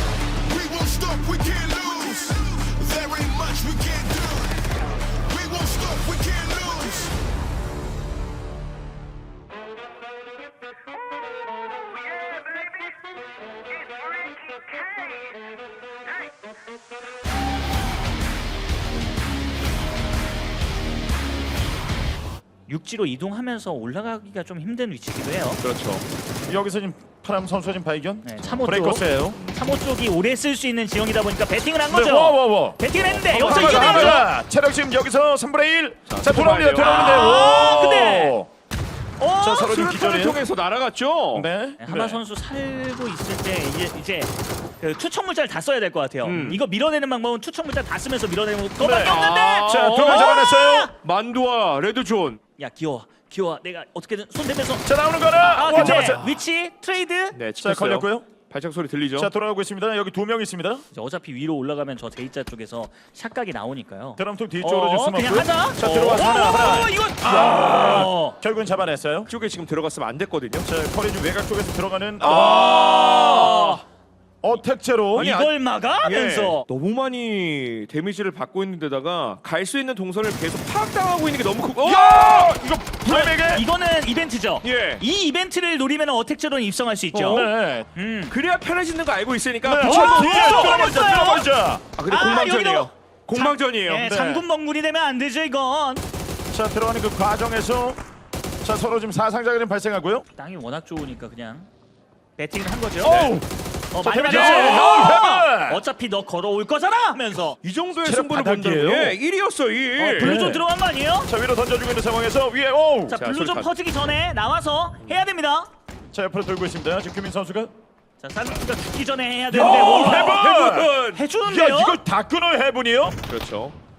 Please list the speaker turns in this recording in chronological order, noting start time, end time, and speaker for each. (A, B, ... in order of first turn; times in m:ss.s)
0:00.4-0:07.2 A
0:22.7-0:25.6 B
0:25.6-0:26.0 C
0:26.5-0:29.4 D
0:28.2-0:34.2 B
0:29.3-0:29.7 C
0:31.9-0:38.5 D
0:33.0-0:34.2 C
0:36.1-0:38.2 C
0:36.8-0:38.3 B
0:39.2-0:39.7 B
0:39.4-0:40.4 D
0:39.6-0:41.5 C
0:41.3-0:42.2 D
0:41.8-0:50.9 B
0:46.2-0:46.6 C
0:48.8-0:50.9 D
0:48.9-0:52.4 C
0:52.6-0:57.4 B
0:54.8-0:56.2 D
0:55.7-0:56.3 C
0:57.3-0:59.3 C
0:57.6-0:58.3 D
0:59.2-1:00.8 D
1:00.9-1:08.4 B
1:04.2-1:09.3 D
1:05.8-1:06.3 C
1:07.3-1:08.1 C
1:09.3-1:10.7 C
1:10.6-1:13.7 D
1:12.2-1:13.8 C
1:13.2-1:13.8 B
1:14.4-1:15.3 D
1:15.2-1:15.5 C
1:15.2-1:16.6 B
1:16.0-1:22.5 C
1:21.8-1:23.6 D
1:23.0-1:28.3 B
1:24.6-1:25.0 C
1:27.1-1:27.9 D
1:27.2-1:27.5 C
1:28.3-1:30.7 C
1:29.6-1:31.8 D
1:29.8-1:31.4 B
1:32.0-1:34.1 C
1:32.1-1:36.0 B
1:34.0-1:34.4 D
1:36.5-1:38.0 D
1:38.6-1:40.2 D
1:40.3-1:41.7 B
1:42.4-1:43.3 B
1:43.0-1:43.5 D
1:43.0-1:43.3 C
1:43.9-1:47.6 B
1:44.0-1:45.8 D
1:44.3-1:45.2 C
1:47.6-1:50.4 C
1:48.0-1:49.2 D
1:50.0-1:50.6 D
1:50.2-1:51.3 B
1:51.2-1:53.2 D
1:53.1-1:55.7 B
1:53.1-1:53.7 C
1:56.1-1:57.7 D
1:58.2-2:00.5 B
1:59.5-2:00.9 D
1:59.5-2:01.2 C
2:01.1-2:02.0 B
2:01.4-2:03.2 D
2:03.3-2:03.7 C